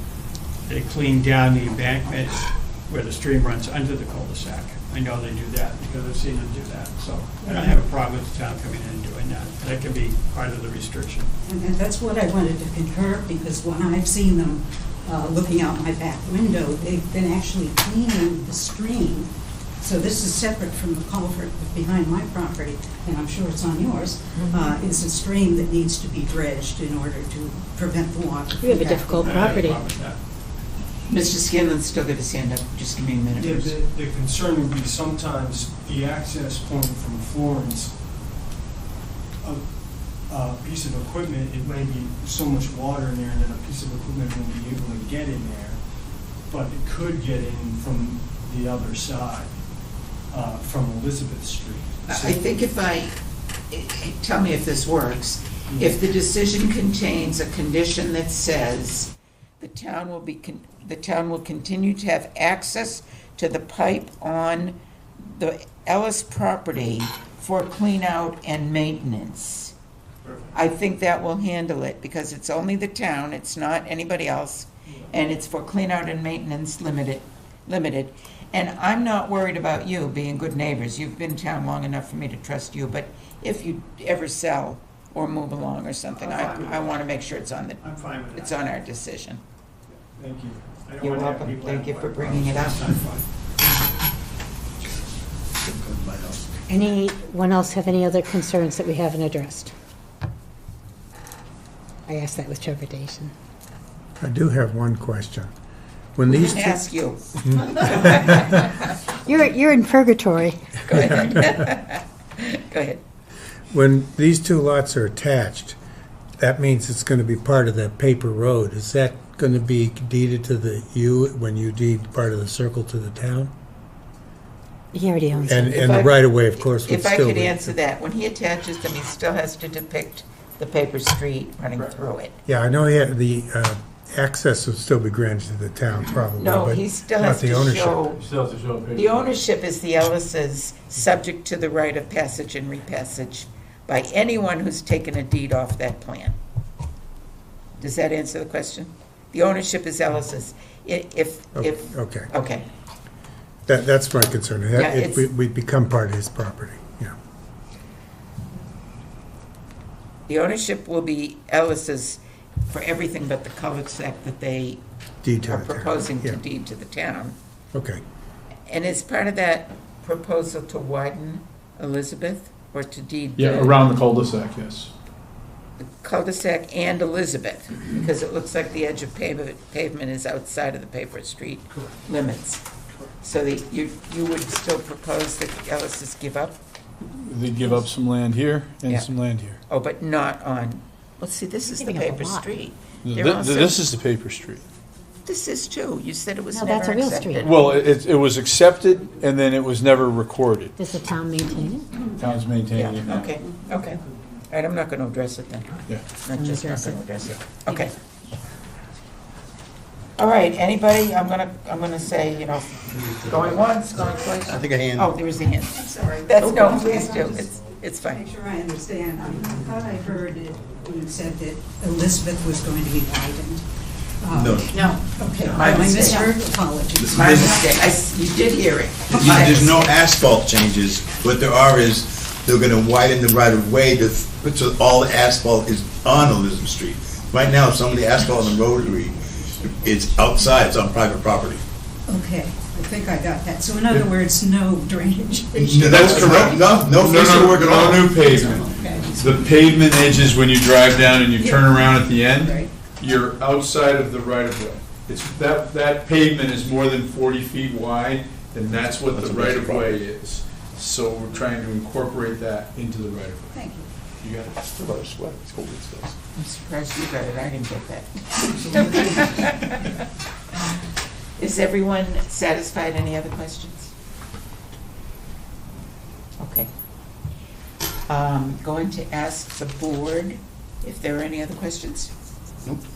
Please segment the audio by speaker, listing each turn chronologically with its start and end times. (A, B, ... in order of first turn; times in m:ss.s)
0:00.7-0:11.3 A
0:07.4-0:07.8 B
0:11.4-0:29.3 B
0:28.6-0:29.8 C
0:29.2-0:30.2 A
0:31.1-0:33.7 D
0:33.3-0:37.9 E
0:40.3-0:45.8 E
0:46.5-0:49.5 E
0:50.3-0:52.5 E
0:52.1-0:53.1 D
0:53.7-1:09.7 D
1:10.2-1:10.5 A
1:10.5-1:27.8 D
1:26.1-1:27.0 A
1:27.8-1:28.7 A
1:28.3-1:29.4 D
1:30.1-1:30.8 E
1:30.8-1:33.2 A
1:31.0-1:32.8 D
1:35.6-1:36.5 F
1:36.7-1:39.7 C
1:42.1-1:43.3 C
1:44.2-1:45.5 G
1:46.1-1:46.8 G
1:46.3-1:48.6 D
1:47.4-1:48.5 G
1:49.2-1:50.6 C
1:50.8-1:53.0 D
1:50.9-1:51.6 G
1:53.7-1:55.8 G
1:56.4-2:03.5 G
2:04.9-2:05.7 C
2:05.4-2:07.7 G
2:05.5-2:12.4 D
2:12.4-2:18.1 G
2:16.4-2:18.2 D
2:18.2-2:19.2 H
2:18.9-2:26.4 D
2:27.8-2:32.6 D
2:31.6-2:32.3 G
2:33.7-2:37.1 G
2:34.7-2:35.2 D
2:40.3-2:44.8 D
2:45.2-2:46.4 G
2:45.5-2:47.4 D
2:47.7-2:48.0 G
2:48.7-2:53.8 D
2:53.4-2:54.9 H
2:55.8-3:02.6 D
3:03.2-3:06.6 D
3:07.1-3:09.6 H
3:09.7-3:13.8 D
3:11.7-3:12.6 C
3:13.0-3:14.6 H
3:15.2-3:17.7 D
3:16.5-3:17.5 C
3:17.4-3:20.7 H
3:20.8-3:22.0 C
3:22.0-3:23.3 H
3:22.7-3:27.9 D
3:26.3-3:27.1 C
3:30.2-3:38.2 D
3:34.5-3:35.0 F
3:35.7-3:37.5 B
3:38.0-3:43.6 B
3:44.2-3:47.9 B
3:44.3-3:44.7 F
3:45.3-3:46.4 D
3:47.1-3:49.8 D
3:47.1-3:47.5 F
3:49.1-3:49.9 B
3:49.1-3:59.2 F
3:58.4-3:59.6 E
3:59.6-4:00.1 A
3:59.7-4:01.6 F
4:02.1-4:06.8 B
4:05.5-4:08.0 F
4:05.8-4:23.5 H
4:07.9-4:09.4 B
4:11.4-4:12.7 B
4:19.2-4:20.0 F
4:23.5-4:23.9 B
4:24.2-4:24.6 H
4:24.8-4:26.1 F
4:26.4-4:30.0 D
4:28.7-4:29.2 B
4:31.4-4:33.9 D
4:36.4-4:36.7 D
4:38.1-4:42.1 D